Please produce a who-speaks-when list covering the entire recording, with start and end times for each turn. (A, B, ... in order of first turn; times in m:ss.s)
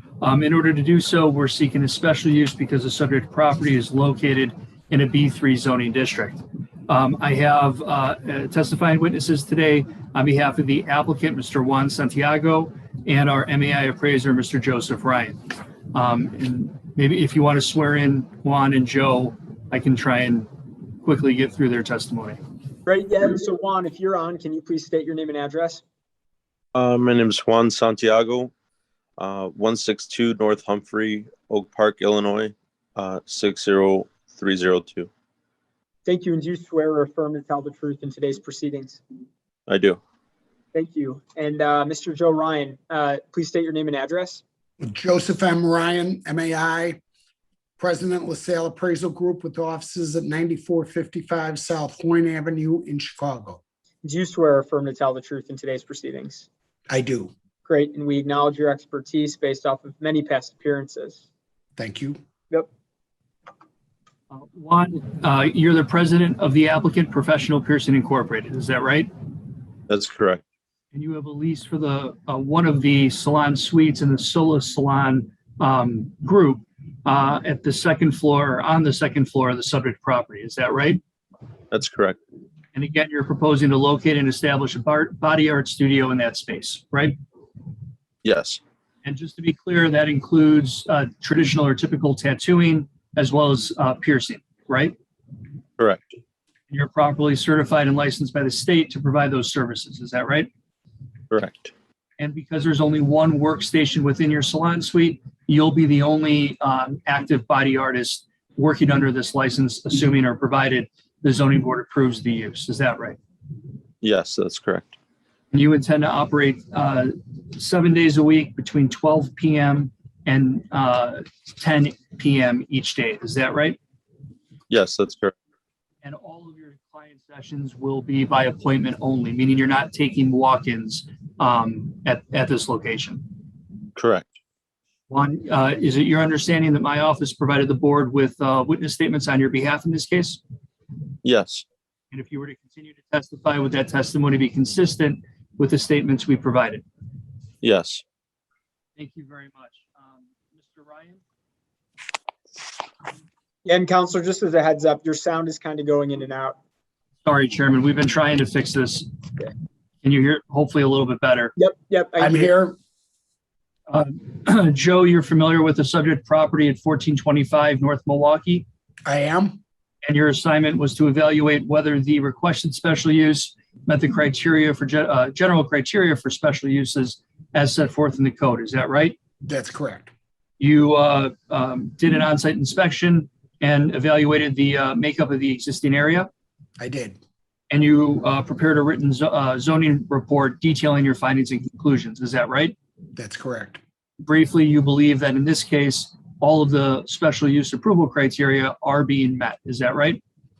0:00.2-0:22.4 A
0:22.8-0:25.8 B
0:26.7-0:28.5 C
0:29.2-0:35.1 C
0:36.0-0:39.0 B
0:39.7-0:40.0 C
0:40.7-0:44.4 B
0:44.8-0:47.0 D
0:47.8-0:53.6 D
0:54.0-0:56.5 B
0:56.9-0:57.3 D
0:57.6-1:01.2 B
1:01.8-1:02.2 D
1:04.3-1:09.1 A
1:09.9-1:10.4 C
1:10.9-1:21.0 A
1:21.7-1:22.2 C
1:22.7-1:27.2 A
1:28.2-1:28.6 C
1:29.0-1:35.0 A
1:36.7-1:40.5 A
1:41.3-1:41.7 C
1:42.2-1:53.2 A
1:54.0-1:54.9 C
1:55.5-2:03.8 A
2:04.7-2:05.3 C
2:06.0-2:13.3 A
2:14.0-2:14.3 C
2:15.1-2:20.4 A
2:21.2-2:21.6 C
2:22.1-2:26.8 A
2:27.6-2:28.0 C
2:29.0-2:31.2 A
2:33.6-2:36.6 B
2:37.2-2:39.1 A
2:40.0-2:41.5 A
2:41.6-2:42.5 B
2:42.2-2:42.8 D
2:43.9-2:48.7 A
2:49.0-2:49.6 D
2:50.0-2:59.2 A
2:59.4-3:00.1 D
3:00.6-3:06.3 A
3:06.8-3:07.2 D
3:07.7-3:12.7 A
3:13.2-3:13.8 D
3:14.2-3:20.2 A